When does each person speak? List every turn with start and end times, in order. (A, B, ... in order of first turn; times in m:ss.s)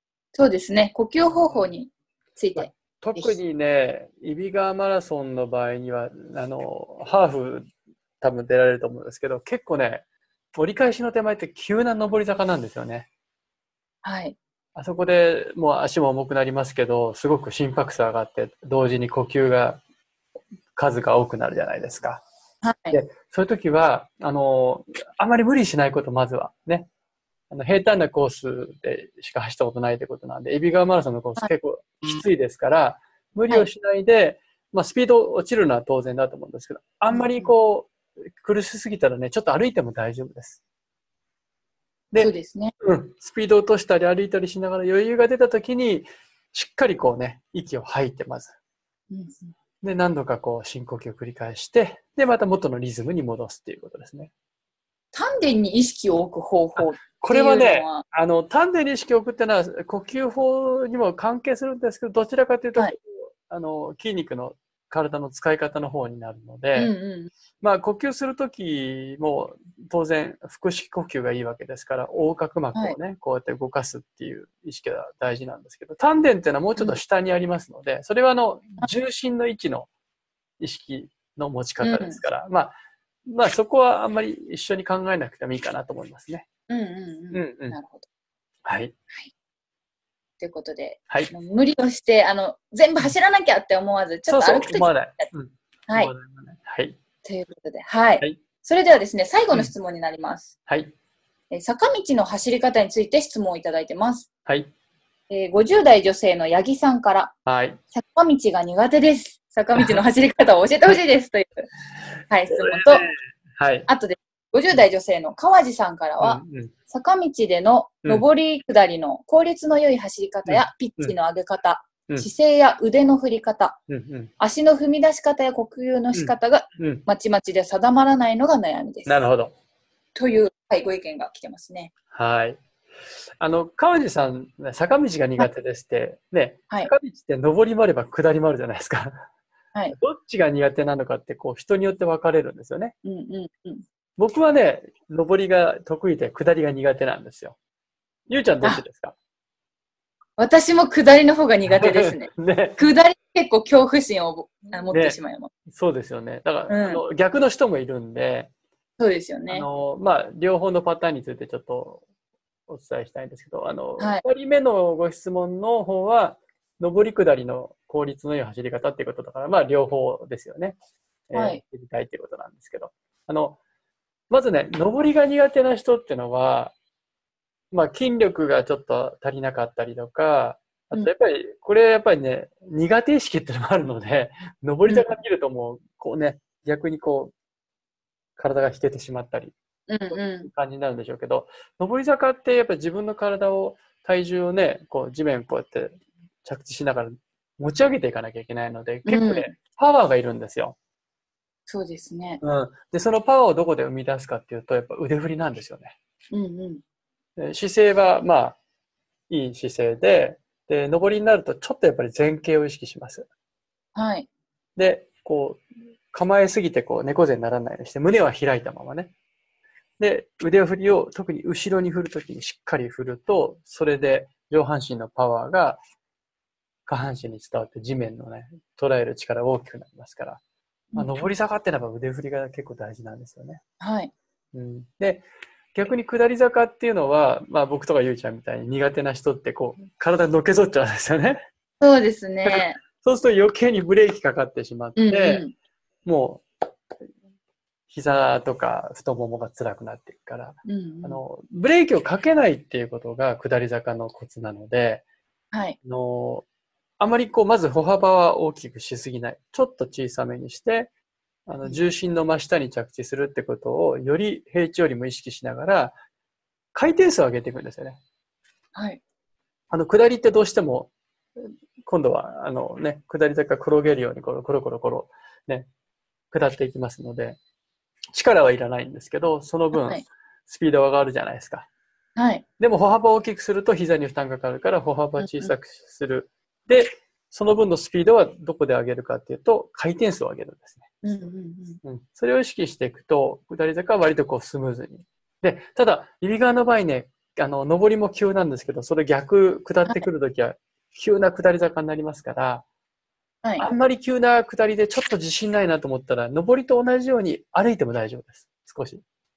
0:00.4-0:03.4 A
0:02.6-0:07.7 B
0:08.2-0:10.0 B
0:10.6-0:13.1 B
0:14.0-0:14.4 A
0:14.8-0:19.8 B
0:20.8-0:22.2 B
0:22.6-0:23.0 A
0:22.9-0:26.9 B
0:27.5-0:40.6 B
0:37.1-0:37.5 A
0:42.1-0:48.5 B
0:42.2-0:42.7 A
0:49.1-0:49.5 A
0:49.8-0:54.3 B
0:55.1-0:58.0 A
0:56.8-1:06.9 B
1:06.8-1:07.3 A
1:07.6-1:19.9 B
1:20.6-1:22.7 B
1:21.8-1:22.2 A
1:23.3-1:26.4 B
1:26.7-1:28.1 A
1:27.3-1:27.8 B
1:28.7-1:28.9 B
1:30.4-1:35.3 A
1:34.3-1:37.0 B
1:37.2-1:40.5 A
1:40.7-1:40.9 B
1:41.5-1:44.3 A
1:44.5-1:44.7 B
1:45.3-1:47.3 A
1:47.4-1:47.8 B
1:47.9-1:51.7 A
1:52.3-1:53.0 A
1:52.5-1:53.9 B
1:53.9-2:03.8 A
1:56.2-1:56.7 B
2:00.5-2:01.2 B
2:03.9-2:04.3 B
2:04.4-2:09.2 A
2:06.1-2:07.0 B
2:09.1-2:09.5 B
2:10.2-2:11.9 A
2:12.1-2:12.6 B
2:13.4-2:19.2 B
2:19.9-2:22.9 B
2:23.0-2:23.8 A
2:24.2-2:27.6 B
2:28.3-2:29.1 B
2:30.4-2:35.5 A
2:31.7-2:32.8 B
2:34.9-2:35.2 B
2:35.7-2:38.5 B
2:36.7-2:37.0 A
2:39.0-2:39.7 A
2:39.5-2:42.0 B
2:42.7-2:50.8 B
2:51.3-2:53.6 B
2:51.3-2:51.6 A
2:54.3-2:56.7 B
2:57.7-3:07.3 B
3:04.8-3:05.1 A
3:08.4-3:09.5 B
3:09.9-3:10.5 A
3:10.1-3:20.8 B
3:19.1-3:19.5 A
3:21.7-3:22.4 A
3:22.4-3:25.9 B
3:26.3-3:26.8 A
3:27.4-3:28.6 B
3:29.3-3:33.3 B
3:33.9-3:34.3 A
3:34.8-3:39.1 B
3:40.0-3:45.8 B
3:46.9-3:50.4 B
3:50.9-3:51.3 A
3:50.9-3:53.6 B
3:53.8-3:54.1 A
3:54.5-4:01.4 B
4:01.8-4:02.8 A
4:02.4-4:05.4 B
4:05.0-4:05.5 A
4:06.0-4:06.4 B
4:07.9-4:15.0 B
4:10.6-4:11.2 A
4:15.5-4:15.8 A
4:15.8-4:16.4 B
4:17.0-4:20.9 B
4:21.5-4:25.9 B
4:26.7-4:28.0 B
4:28.8-4:29.0 A
4:29.7-4:30.9 B
4:31.4-4:35.7 B
4:36.3-4:37.4 B
4:38.1-4:41.7 B
4:39.7-4:40.0 A
4:42.2-4:42.4 A
4:42.6-4:50.8 B
4:45.2-4:45.5 A
4:51.0-4:51.8 A
4:51.8-5:02.6 B
5:03.4-5:03.7 A
5:03.6-5:09.0 B